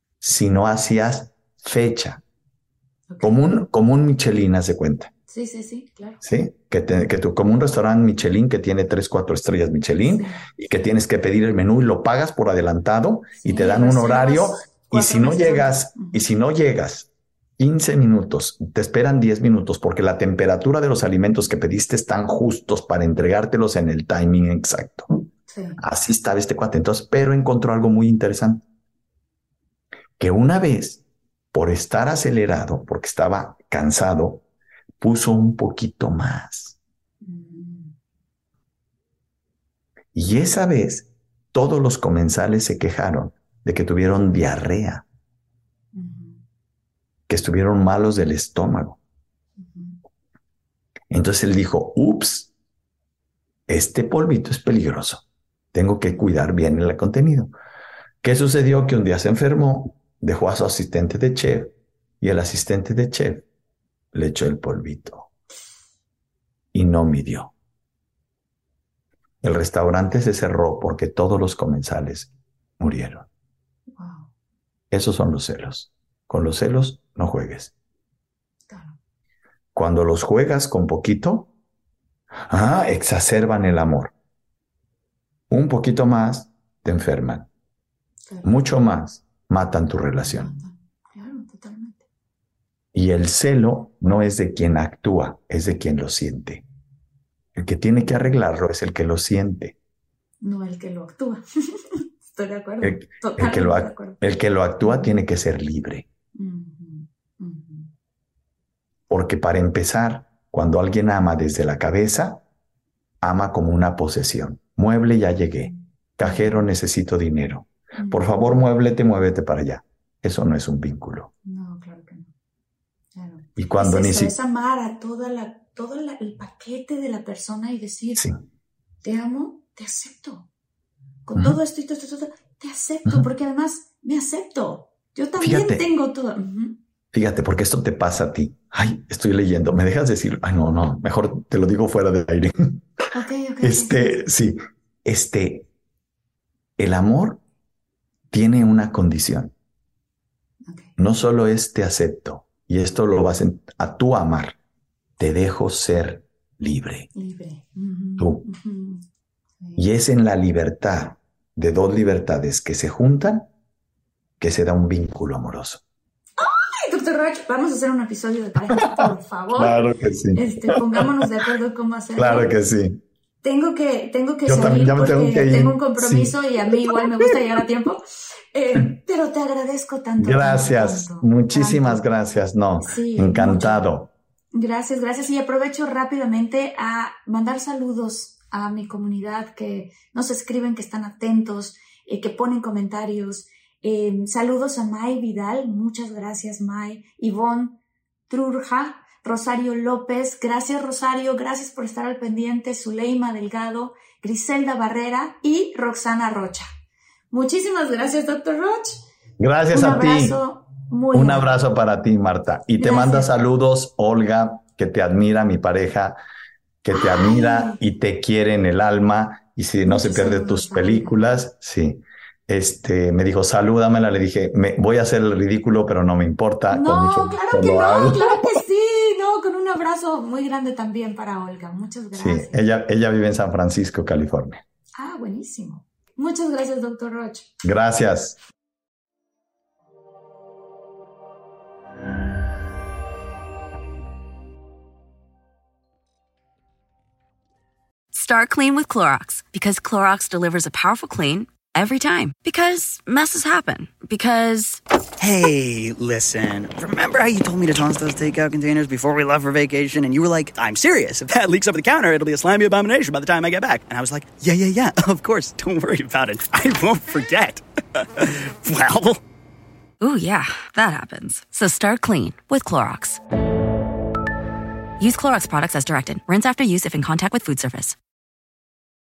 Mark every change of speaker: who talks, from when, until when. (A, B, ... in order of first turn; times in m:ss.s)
0:00.2-0:02.2 A
0:03.1-0:03.4 B
0:03.2-0:05.1 A
0:05.3-0:06.2 B
0:06.2-0:25.1 A
0:10.0-0:10.5 B
0:13.4-0:16.3 B
0:25.5-0:25.8 B
0:25.8-0:28.6 A
0:30.2-0:31.0 A
0:31.5-0:34.4 A
0:35.0-0:36.8 A
0:37.2-0:38.0 B
0:40.1-0:45.1 A
0:45.9-0:46.4 B
0:47.3-0:49.0 A
0:49.6-0:50.0 B
0:51.1-0:52.5 A
0:53.7-0:57.5 A
0:58.2-1:03.5 A
1:04.1-1:05.3 A
1:06.7-1:07.5 A
1:09.4-1:13.3 A
1:14.0-1:14.3 B
1:14.9-1:17.7 A
1:18.7-1:19.0 B
1:19.8-1:21.5 A
1:22.5-1:24.1 A
1:25.5-1:27.5 A
1:28.4-1:30.6 A
1:30.2-1:32.1 B
1:32.9-1:36.6 A
1:37.6-1:39.8 A
1:40.4-1:44.2 B
1:42.8-1:46.1 A
1:44.8-1:45.2 B
1:46.4-1:47.9 B
1:49.1-1:52.4 A
1:53.2-2:01.3 A
1:55.6-1:56.7 B
1:58.0-1:58.6 B
2:01.4-2:02.3 B
2:03.1-2:08.3 B
2:03.6-2:04.4 A
2:09.0-2:10.5 B
2:11.3-2:16.8 B
2:15.4-2:15.8 A
2:17.1-2:22.8 A
2:23.1-2:24.2 B
2:23.6-2:25.7 A
2:26.8-2:27.4 A
2:28.3-2:29.5 A
2:30.7-2:31.0 B
2:31.0-2:34.6 A
2:35.2-2:37.1 A
2:37.2-2:39.0 B
2:38.2-2:38.4 A
2:39.6-2:39.9 B
2:39.8-2:43.5 A
2:44.4-2:45.8 A
2:46.4-2:49.8 B
2:49.0-2:50.8 A
2:50.3-2:52.5 B
2:52.2-2:53.0 A
2:53.4-3:02.0 B
2:54.5-2:57.0 A
3:00.2-3:04.1 A
3:02.8-3:03.9 B
3:04.5-3:26.7 B
3:27.3-3:29.0 B
3:29.4-3:30.4 A
3:29.7-3:31.6 B
3:31.1-3:36.2 A
3:32.8-3:33.3 B
3:36.8-3:48.6 A
3:37.0-3:37.8 B
3:39.9-3:41.2 B
3:46.7-3:52.6 B
3:52.1-3:54.6 A
3:55.0-3:57.5 B
3:57.6-3:58.4 A
4:08.1-4:14.8 C
4:15.2-4:29.2 D
4:30.0-4:33.2 C
4:35.0-4:38.0 C